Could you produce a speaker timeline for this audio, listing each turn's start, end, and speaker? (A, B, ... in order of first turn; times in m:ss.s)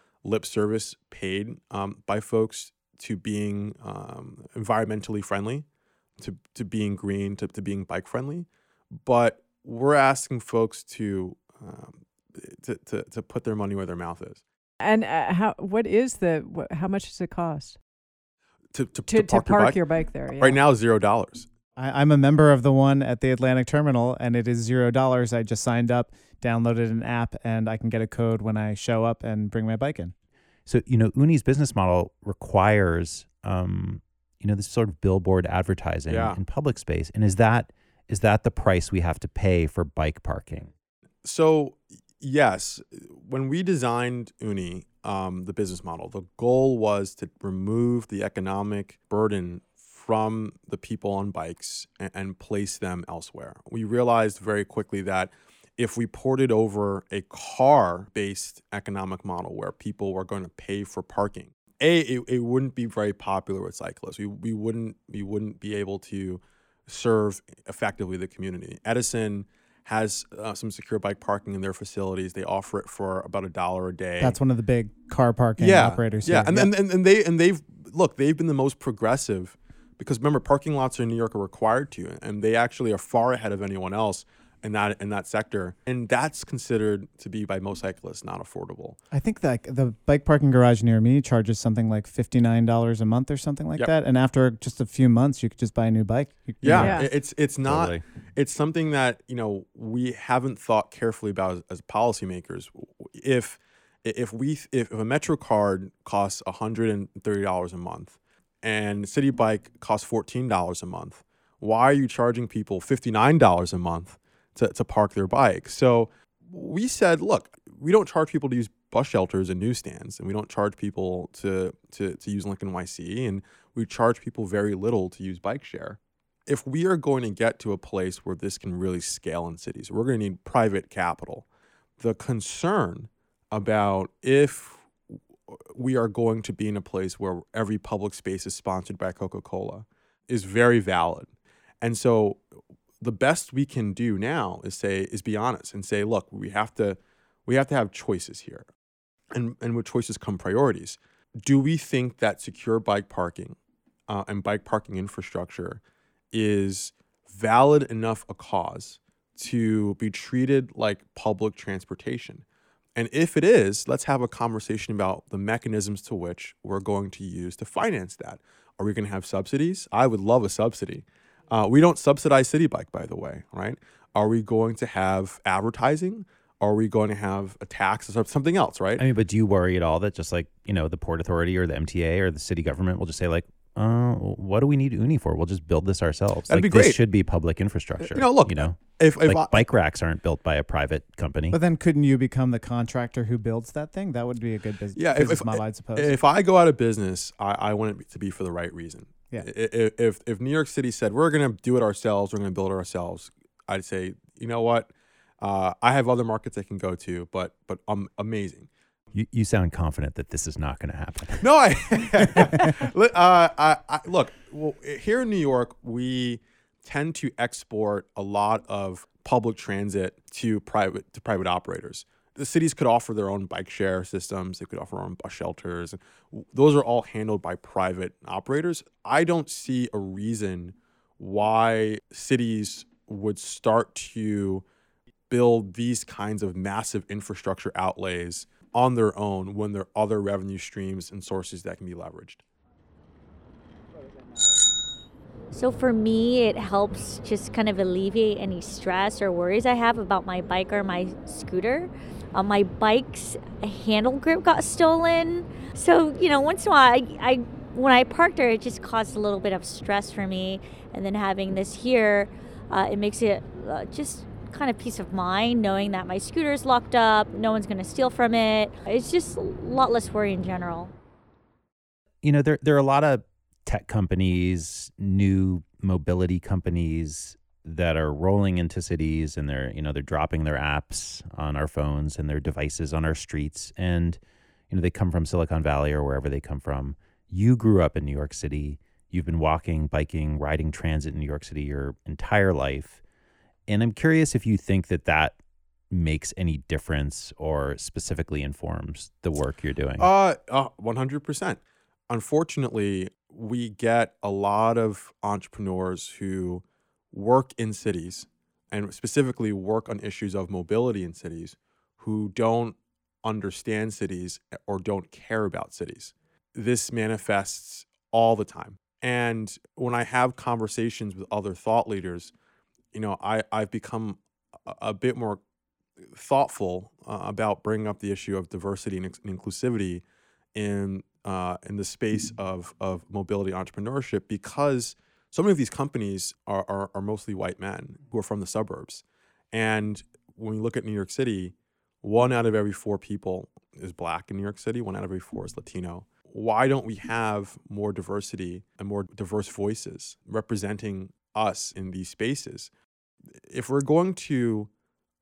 0:00.2-0:05.6 A
0:06.2-0:14.4 A
0:14.8-0:17.8 B
0:18.7-0:19.8 A
0:19.1-0:20.6 B
0:20.3-0:21.5 A
0:21.8-0:30.1 C
0:30.7-0:40.7 D
0:36.1-0:36.4 A
0:41.2-1:14.4 A
1:14.2-1:16.7 C
1:15.6-1:29.0 A
1:29.1-1:37.0 C
1:36.6-2:11.5 A
1:36.8-1:37.1 B
1:37.6-1:38.0 D
2:12.0-2:14.9 A
2:15.7-2:22.4 A
2:23.0-2:28.7 A
2:29.3-2:33.6 A
2:34.1-2:42.4 A
2:43.0-2:59.0 A
2:59.0-3:11.6 D
3:06.5-3:07.0 A
3:08.0-3:09.6 A
3:11.5-3:16.1 C
3:14.9-3:28.7 A
3:29.1-3:31.4 D
3:31.4-3:54.6 A
3:32.0-3:32.7 D
3:55.3-4:02.4 A
4:05.5-4:30.9 E
4:32.2-4:44.2 D
4:44.7-4:53.0 D
4:53.7-4:55.4 D
4:55.9-5:00.1 D
5:00.0-5:22.3 A
5:22.9-5:25.4 A
5:26.1-5:30.0 A
5:30.5-5:52.7 A
5:53.5-5:54.7 A